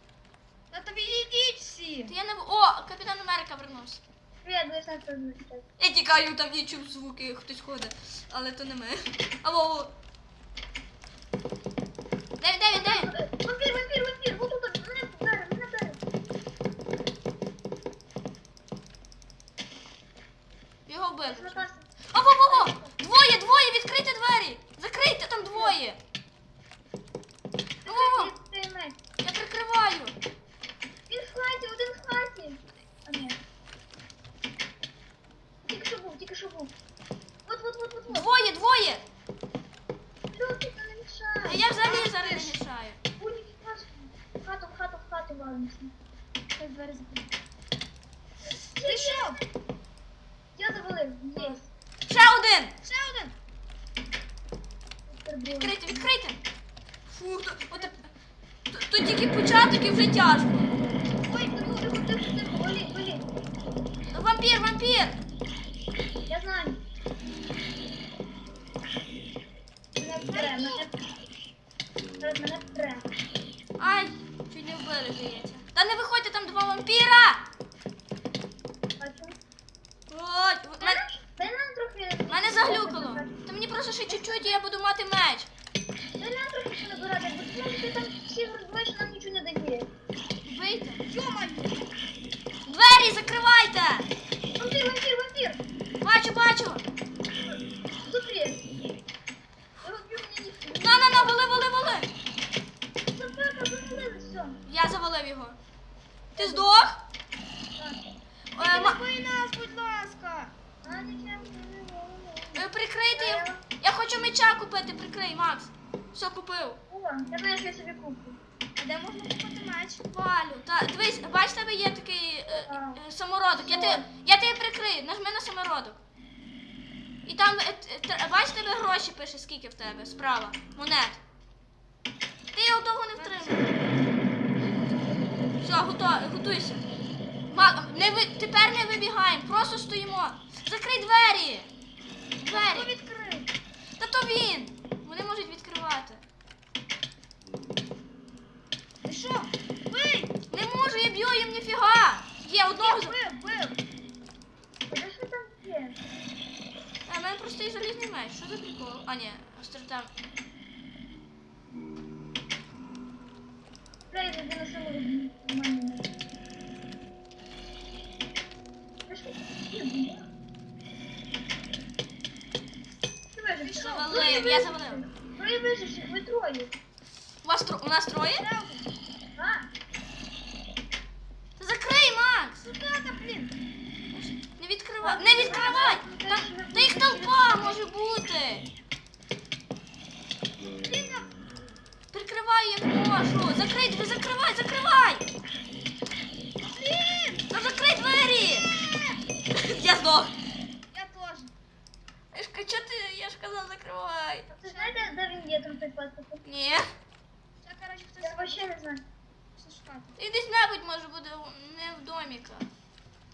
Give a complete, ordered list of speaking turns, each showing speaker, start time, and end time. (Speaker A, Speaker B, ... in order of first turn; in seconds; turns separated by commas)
Speaker A: 0.7-2.1, Speaker B: 2.1-4.0, Speaker C: 4.4-5.7, Speaker B: 5.8-9.9, Speaker B: 12.4-13.1, Speaker C: 12.7-16.0, Speaker B: 20.9-26.0, Speaker C: 21.3-21.9, Speaker C: 22.5-22.9, Speaker C: 25.3-25.8, Speaker C: 27.8-29.0, Speaker B: 27.9-28.3, Speaker B: 29.2-30.1, Speaker C: 31.1-33.4, Speaker C: 35.7-36.7, Speaker C: 37.5-38.3, Speaker B: 38.1-39.0, Speaker C: 40.3-42.6, Speaker B: 41.4-43.0, Speaker C: 43.2-45.9, Speaker A: 46.6-47.3, Speaker C: 48.5-49.5, Speaker A: 48.8-49.4, Speaker C: 50.6-51.7, Speaker B: 52.1-52.8, Speaker A: 52.8-53.3, Speaker C: 55.1-55.8, Speaker B: 55.6-56.4, Speaker B: 57.1-58.0, Speaker B: 58.7-60.8, Speaker A: 61.2-61.7, Speaker C: 61.3-63.3, Speaker B: 64.1-65.2, Speaker C: 66.3-66.8, Speaker C: 69.9-70.9, Speaker A: 70.2-70.9, Speaker C: 72.2-73.1, Speaker B: 73.8-77.4, Speaker C: 79.0-79.4, Speaker B: 80.1-81.0, Speaker C: 80.8-83.4, Speaker B: 82.3-85.5, Speaker C: 84.1-84.5, Speaker C: 86.2-89.9, Speaker B: 90.5-91.0, Speaker A: 91.1-91.9, Speaker B: 92.7-94.1, Speaker C: 94.6-95.6, Speaker B: 96.0-96.8, Speaker C: 97.5-98.7, Speaker C: 99.8-101.5, Speaker B: 100.8-102.1, Speaker C: 103.1-104.6, Speaker B: 104.6-105.6, Speaker C: 106.3-106.7, Speaker B: 106.4-107.0, Speaker B: 108.5-109.0, Speaker A: 108.6-110.5, Speaker C: 110.8-113.6, Speaker B: 112.5-116.8, Speaker C: 116.9-118.4, Speaker A: 118.8-120.0, Speaker B: 120.1-126.0, Speaker C: 122.5-123.0, Speaker C: 123.6-124.0, Speaker B: 127.2-131.2, Speaker B: 132.5-133.7, Speaker A: 133.2-133.6, Speaker A: 134.8-135.2, Speaker B: 135.6-136.8, Speaker B: 137.5-141.7, Speaker B: 142.4-142.9, Speaker A: 142.5-143.5, Speaker B: 144.0-146.2, Speaker A: 149.0-150.3, Speaker B: 150.5-153.2, Speaker A: 152.7-153.8, Speaker C: 154.9-156.0, Speaker B: 157.1-160.1, Speaker C: 164.1-166.1, Speaker C: 169.1-170.3, Speaker C: 173.4-176.7, Speaker A: 173.6-174.2, Speaker B: 173.9-175.1, Speaker B: 177.4-178.5, Speaker A: 178.4-178.9, Speaker C: 179.4-179.7, Speaker B: 181.6-182.6, Speaker A: 182.6-183.6, Speaker B: 184.1-188.7, Speaker C: 185.0-187.8, Speaker A: 185.5-185.8, Speaker A: 190.8-191.4, Speaker B: 192.1-195.2, Speaker A: 196.6-197.6, Speaker B: 197.5-198.7, Speaker A: 198.7-199.2, Speaker B: 199.5-200.4, Speaker A: 200.9-201.5, Speaker B: 202.3-204.5, Speaker C: 204.5-206.4, Speaker A: 204.7-205.1, Speaker B: 206.4-206.9, Speaker A: 207.6-208.7, Speaker C: 208.2-209.1, Speaker A: 209.6-210.2, Speaker B: 210.2-212.7